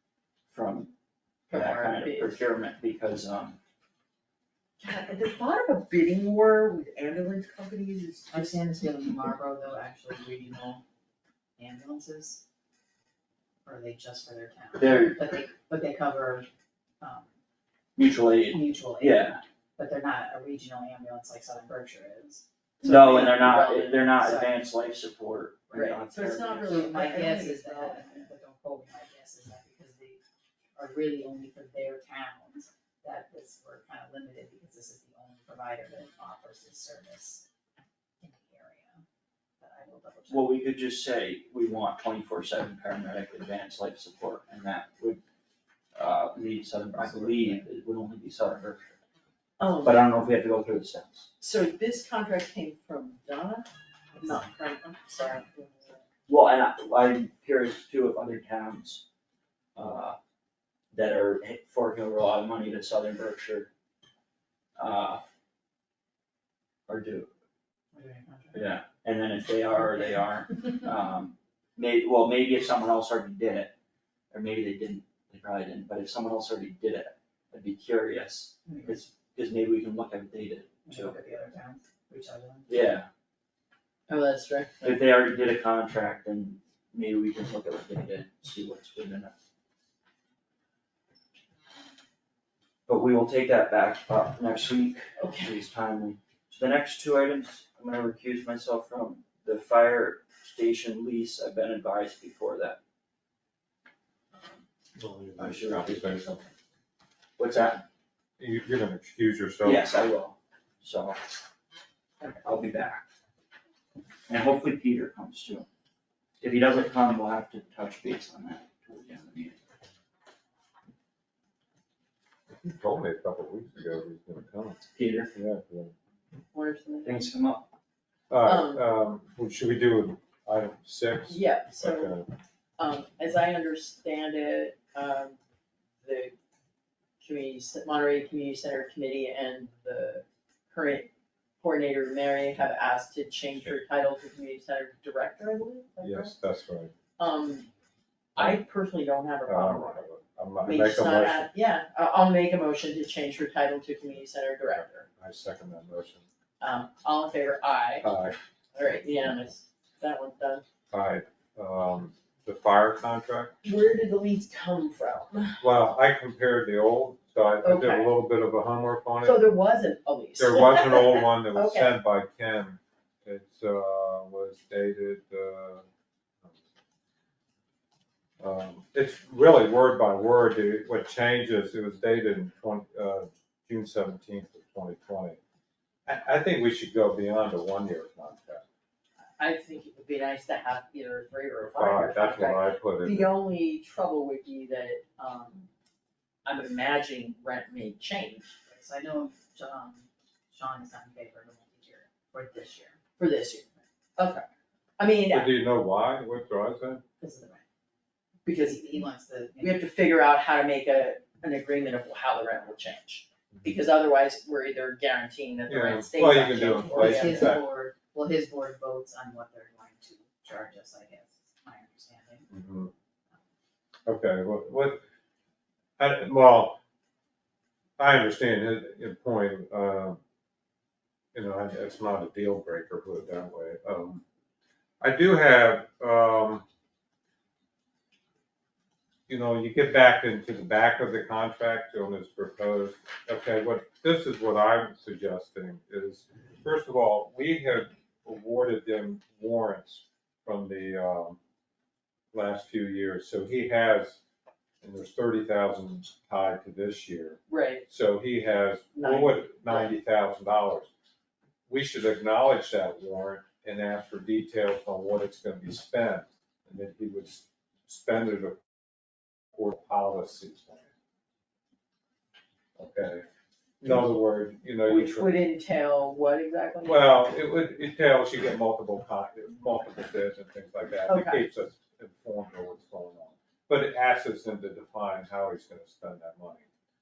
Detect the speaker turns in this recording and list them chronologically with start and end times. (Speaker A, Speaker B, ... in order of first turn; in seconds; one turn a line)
Speaker A: 0.5-0.9
Speaker B: 1.5-2.4
Speaker A: 1.5-3.6
Speaker B: 4.8-8.7
Speaker C: 8.3-10.8
Speaker C: 11.6-12.4
Speaker C: 13.6-16.5
Speaker A: 14.8-15.2
Speaker C: 17.0-17.3
Speaker A: 17.9-19.4
Speaker C: 18.5-22.4
Speaker B: 22.8-24.3
Speaker A: 22.8-26.8
Speaker B: 25.7-28.3
Speaker C: 26.7-30.2
Speaker C: 30.8-37.5
Speaker C: 38.2-39.0
Speaker C: 39.6-40.5
Speaker A: 40.3-45.2
Speaker A: 45.9-49.0
Speaker C: 47.0-47.7
Speaker B: 49.6-50.0
Speaker A: 49.8-51.3
Speaker B: 51.4-56.0
Speaker A: 56.3-59.0
Speaker A: 59.7-60.2
Speaker A: 60.9-63.7
Speaker A: 64.8-65.2
Speaker A: 66.9-67.3
Speaker C: 67.9-68.7
Speaker A: 68.5-73.7
Speaker A: 74.3-81.2
Speaker C: 78.6-79.0
Speaker C: 80.8-82.8
Speaker A: 82.7-83.1
Speaker B: 84.1-84.9
Speaker A: 84.8-89.3
Speaker A: 92.9-102.8
Speaker B: 95.2-95.5
Speaker D: 105.0-106.4
Speaker A: 105.4-106.5
Speaker A: 107.4-107.8
Speaker D: 108.4-109.9
Speaker A: 109.6-111.2
Speaker A: 112.4-113.0
Speaker A: 114.3-115.7
Speaker A: 116.4-119.6
Speaker D: 122.6-125.9
Speaker A: 124.9-125.3
Speaker B: 126.5-127.2
Speaker A: 127.0-127.7
Speaker D: 128.3-132.3
Speaker B: 128.4-128.8
Speaker B: 131.3-132.1
Speaker B: 132.8-135.4
Speaker B: 136.0-136.3
Speaker B: 137.2-146.3
Speaker D: 146.0-146.9
Speaker B: 147.2-147.7
Speaker B: 148.3-150.1
Speaker D: 148.4-148.6
Speaker D: 149.4-151.5
Speaker B: 150.6-155.1
Speaker D: 155.1-156.2
Speaker B: 156.6-158.1
Speaker D: 158.0-158.4
Speaker B: 158.7-160.6
Speaker D: 160.9-163.5
Speaker B: 163.6-165.6
Speaker D: 165.6-169.5
Speaker B: 167.6-168.1
Speaker B: 169.2-171.9
Speaker D: 170.4-175.8
Speaker D: 178.4-185.4
Speaker D: 186.1-188.6
Speaker B: 189.4-195.7
Speaker D: 191.6-193.3
Speaker B: 196.4-198.5
Speaker C: 198.7-203.0
Speaker B: 203.2-204.4
Speaker B: 205.0-205.5
Speaker D: 205.3-207.0
Speaker C: 207.2-207.6
Speaker B: 208.4-209.1
Speaker C: 208.5-209.9
Speaker B: 209.6-217.6
Speaker D: 215.7-217.6
Speaker C: 216.9-222.5
Speaker D: 222.5-222.9
Speaker D: 224.1-225.0
Speaker D: 226.0-226.8
Speaker D: 228.0-230.2
Speaker D: 231.3-234.2
Speaker D: 235.0-236.6
Speaker D: 239.3-251.4
Speaker D: 252.3-254.2
Speaker D: 254.8-260.9
Speaker B: 257.5-257.8
Speaker B: 258.9-260.0
Speaker D: 261.7-268.6
Speaker D: 269.5-270.9
Speaker D: 272.8-273.2
Speaker D: 273.8-275.4
Speaker B: 274.9-277.1
Speaker D: 276.8-286.6
Speaker B: 281.1-281.4